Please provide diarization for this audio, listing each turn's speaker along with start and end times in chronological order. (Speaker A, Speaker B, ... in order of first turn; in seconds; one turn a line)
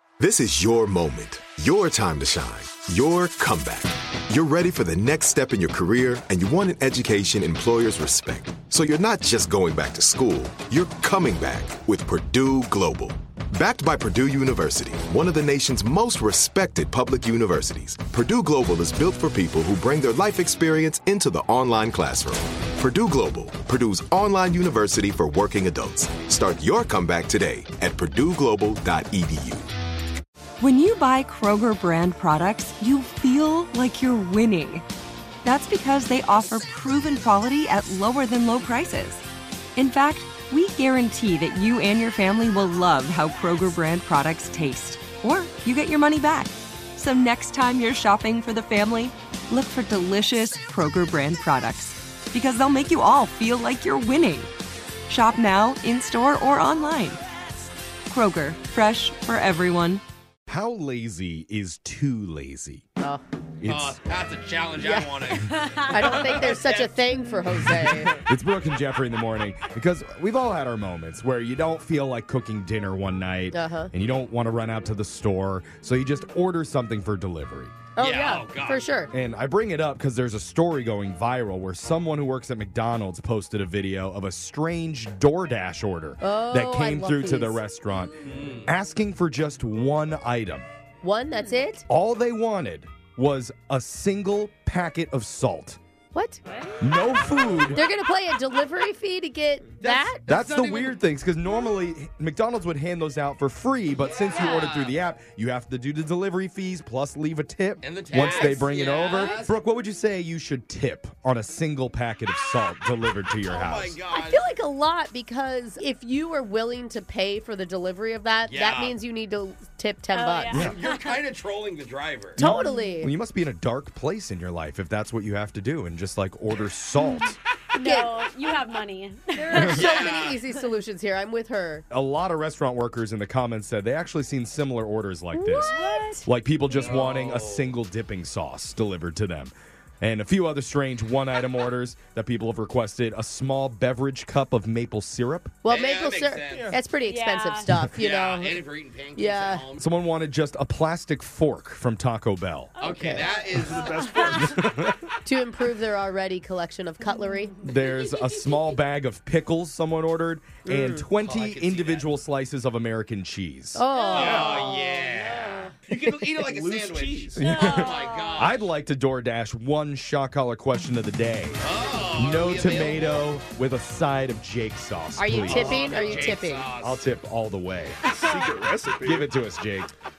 Speaker A: 0.2-29.7
Speaker B: 30.6-34.9
Speaker B: 35.4-39.2
Speaker B: 39.8-54.5
Speaker B: 55.1-57.2
Speaker B: 58.1-60.0
Speaker C: 60.5-62.8
Speaker C: 63.6-64.0
Speaker D: 63.7-67.1
Speaker E: 64.8-68.2
Speaker C: 68.2-77.8
Speaker E: 73.5-73.9
Speaker E: 78.0-79.1
Speaker D: 78.0-78.9
Speaker C: 79.1-90.7
Speaker E: 86.2-87.6
Speaker D: 88.2-88.7
Speaker E: 91.0-91.9
Speaker C: 91.9-95.8
Speaker E: 96.1-96.4
Speaker C: 96.8-97.8
Speaker E: 97.7-100.2
Speaker D: 99.8-101.0
Speaker C: 100.3-114.0
Speaker D: 104.0-105.0
Speaker E: 104.4-104.6
Speaker D: 107.8-109.6
Speaker E: 108.2-109.4
Speaker D: 113.4-114.5
Speaker E: 114.1-120.5
Speaker D: 118.5-119.0
Speaker F: 120.1-121.2
Speaker C: 120.5-120.8
Speaker D: 120.5-122.4
Speaker E: 122.4-123.1
Speaker C: 122.4-127.4
Speaker E: 127.8-128.2
Speaker F: 127.8-129.9
Speaker E: 129.4-131.8
Speaker D: 129.6-130.4
Speaker C: 131.9-145.6
Speaker E: 135.3-136.1
Speaker F: 135.5-136.3
Speaker D: 136.7-137.7
Speaker E: 145.6-148.6
Speaker D: 145.7-146.7
Speaker G: 146.5-146.8
Speaker F: 147.0-147.7
Speaker D: 148.0-149.9
Speaker E: 149.1-149.6
Speaker C: 149.8-152.7
Speaker D: 152.8-154.2
Speaker E: 152.8-153.3
Speaker G: 153.6-154.7
Speaker F: 153.9-154.4
Speaker C: 154.3-155.1
Speaker E: 155.2-157.6
Speaker C: 157.6-163.8
Speaker F: 157.9-158.6
Speaker G: 160.6-161.1
Speaker D: 161.1-162.1
Speaker E: 163.8-165.0
Speaker F: 164.0-164.2
Speaker G: 164.1-164.6
Speaker D: 164.1-168.7
Speaker G: 165.9-167.6
Speaker C: 167.4-171.6
Speaker F: 167.4-168.5
Speaker D: 171.6-173.2
Speaker C: 172.1-178.0
Speaker E: 175.2-176.7
Speaker D: 175.4-177.0
Speaker G: 178.1-179.3
Speaker F: 178.1-178.6
Speaker C: 179.0-179.9